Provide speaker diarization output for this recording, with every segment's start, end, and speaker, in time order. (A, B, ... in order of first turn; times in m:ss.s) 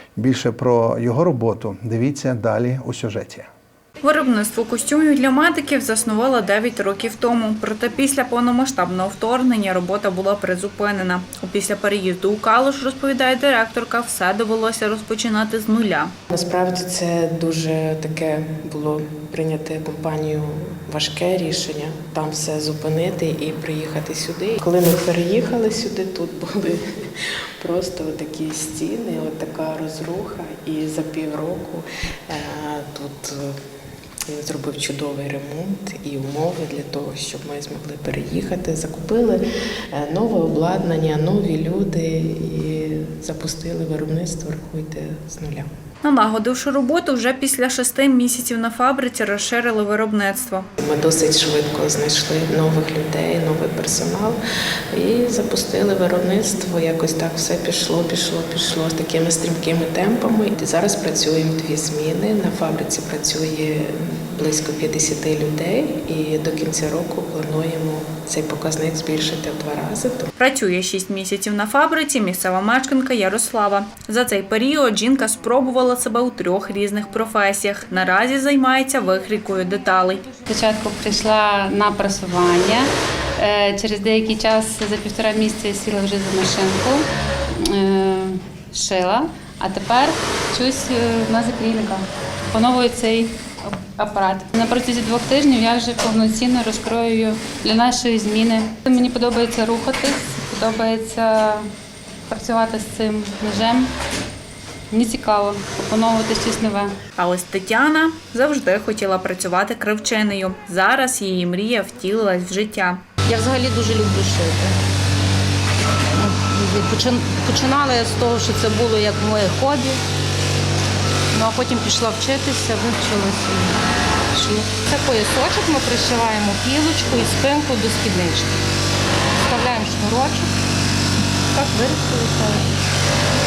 0:00.2-0:03.5 A
0:04.0-0:16.1 B
0:16.3-0:33.6 C
0:34.3-0:45.7 C
0:46.0-0:50.7 B
0:50.8-0:54.4 C
0:54.9-1:10.3 C
1:10.4-1:20.3 B
1:20.5-1:41.7 D
1:42.3-1:43.9 D
1:44.9-1:46.9 D
1:47.2-1:53.0 B
1:53.2-1:54.8 E
1:56.1-2:00.0 E
2:01.3-2:03.8 E
2:04.3-2:08.6 E
2:09.4-2:10.5 E
2:11.5-2:12.7 E